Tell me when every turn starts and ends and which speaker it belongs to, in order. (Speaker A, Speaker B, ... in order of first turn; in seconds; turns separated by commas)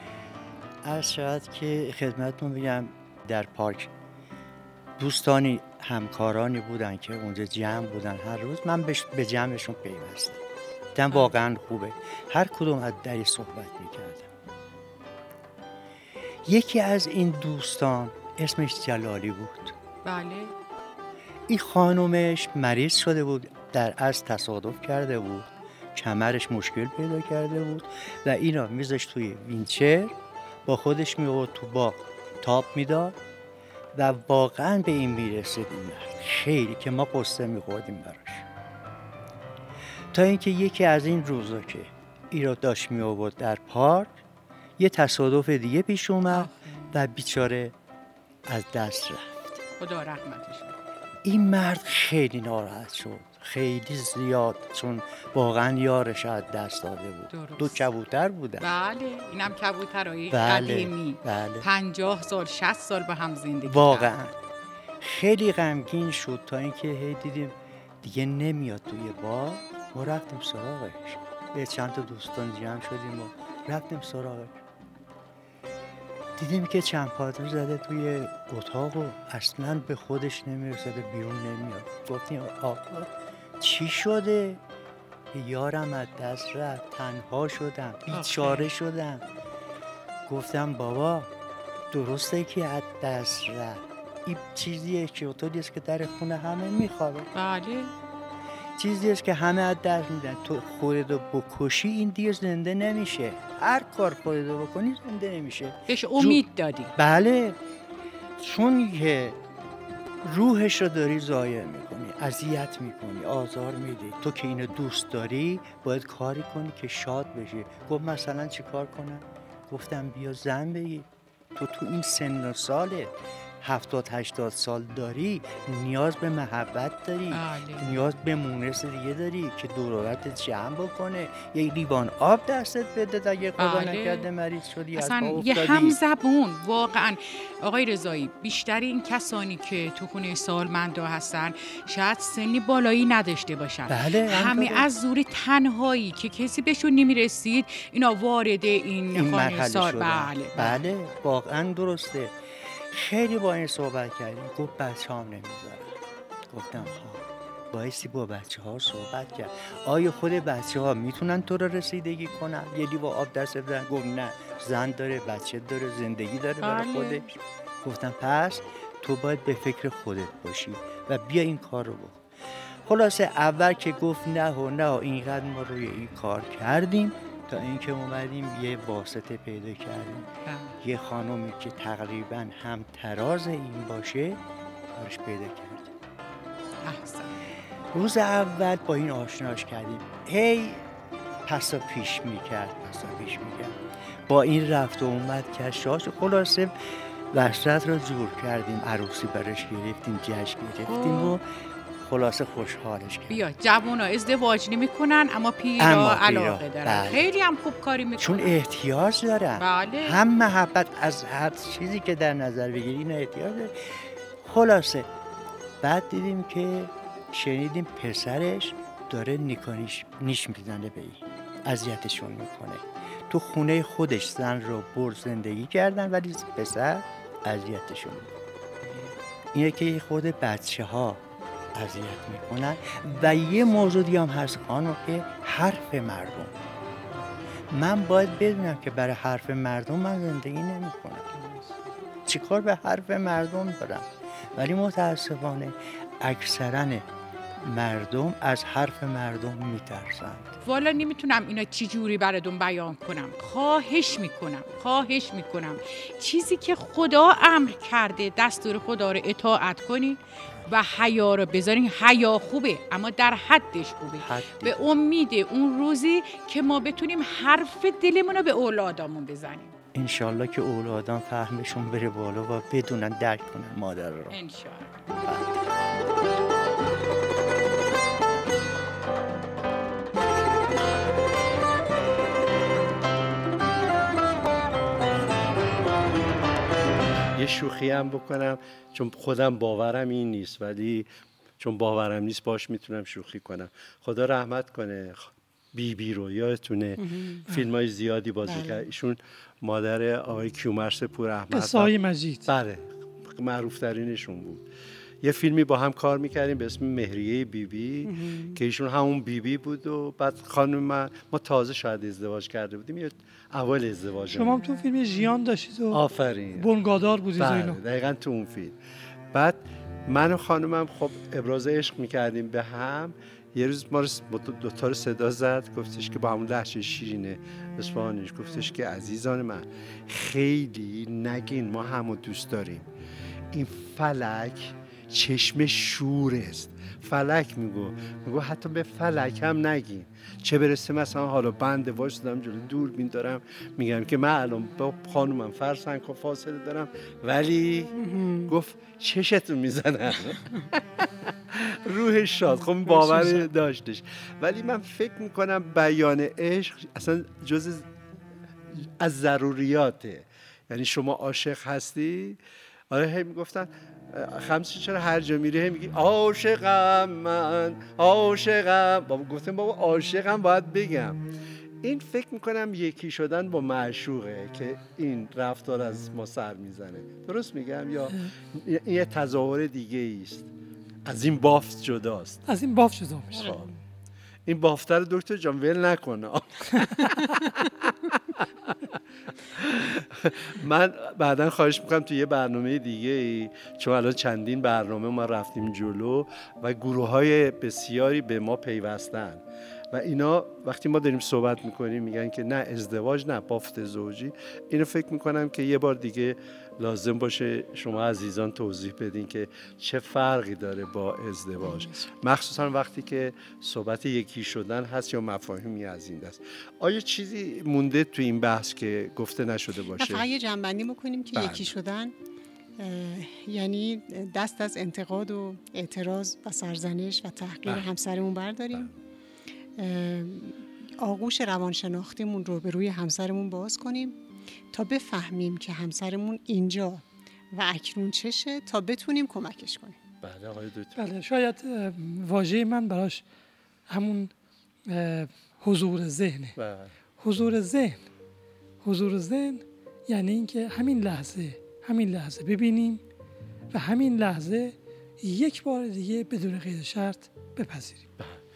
Speaker A: 0.8-3.9, Speaker A: 5.0-10.4, Speaker A: 10.9-14.3, Speaker A: 16.4-19.7, Speaker B: 20.0-20.5, Speaker A: 21.5-30.1, Speaker A: 30.6-33.1, Speaker A: 34.0-38.4, Speaker A: 40.1-44.1, Speaker A: 44.8-47.7, Speaker B: 46.3-46.9, Speaker A: 48.5-49.5, Speaker B: 49.8-50.8, Speaker A: 51.2-58.7, Speaker B: 57.3-57.9, Speaker B: 58.6-64.1, Speaker A: 60.3-61.7, Speaker A: 63.6-64.3, Speaker A: 65.0-74.6, Speaker A: 76.4-84.6, Speaker A: 85.3-89.2, Speaker B: 88.1-88.7, Speaker A: 90.3-91.3, Speaker A: 91.9-97.3, Speaker B: 97.3-97.9, Speaker A: 98.8-107.6, Speaker B: 105.9-106.9, Speaker A: 108.4-109.4, Speaker A: 110.2-136.0, Speaker B: 127.3-128.1, Speaker B: 133.6-134.3, Speaker B: 134.9-150.8, Speaker A: 143.9-144.9, Speaker A: 149.1-152.3, Speaker A: 152.9-155.9, Speaker A: 156.5-167.3, Speaker B: 166.6-167.2, Speaker A: 167.8-172.2, Speaker A: 172.8-180.3, Speaker B: 180.4-180.8, Speaker A: 180.8-184.4, Speaker A: 184.9-185.9, Speaker B: 186.8-187.4, Speaker A: 187.9-190.8, Speaker A: 191.4-193.8, Speaker A: 194.3-196.7, Speaker A: 197.3-203.4, Speaker B: 200.8-201.3, Speaker B: 203.3-208.6, Speaker A: 205.8-207.3, Speaker A: 208.2-213.7, Speaker B: 209.6-210.2, Speaker A: 214.4-215.1, Speaker A: 215.8-228.3, Speaker A: 228.9-231.2, Speaker A: 231.7-236.6, Speaker A: 237.7-241.3, Speaker B: 241.3-241.7, Speaker A: 242.2-247.1, Speaker A: 247.6-250.5, Speaker B: 250.6-269.7, Speaker A: 264.2-264.9, Speaker A: 269.9-274.4, Speaker B: 274.3-274.9, Speaker C: 287.3-291.1, Speaker C: 291.6-301.9, Speaker D: 297.0-297.5, Speaker D: 298.4-298.9, Speaker E: 301.5-302.5, Speaker C: 302.4-304.6, Speaker C: 305.2-314.6, Speaker D: 308.0-308.6, Speaker E: 314.3-316.0, Speaker C: 315.9-316.7, Speaker E: 316.6-317.8, Speaker C: 317.4-318.8, Speaker C: 319.3-332.9, Speaker C: 333.5-347.9, Speaker D: 348.0-348.5, Speaker C: 348.5-350.8, Speaker C: 351.5-357.9, Speaker E: 353.0-353.3, Speaker C: 359.0-371.2, Speaker C: 371.8-380.5, Speaker C: 381.0-382.4, Speaker E: 382.5-383.5, Speaker C: 383.3-383.7, Speaker D: 383.4-383.8, Speaker C: 384.4-388.9, Speaker C: 389.5-420.2, Speaker D: 411.6-412.1, Speaker D: 420.0-422.1, Speaker C: 421.3-421.7, Speaker D: 422.8-428.9, Speaker D: 429.8-434.2, Speaker D: 434.7-440.0, Speaker C: 440.2-441.0, Speaker E: 440.9-443.2, Speaker E: 443.9-444.3, Speaker E: 444.9-446.6, Speaker C: 446.6-446.9, Speaker E: 447.2-448.0, Speaker E: 448.8-453.0, Speaker E: 453.7-458.1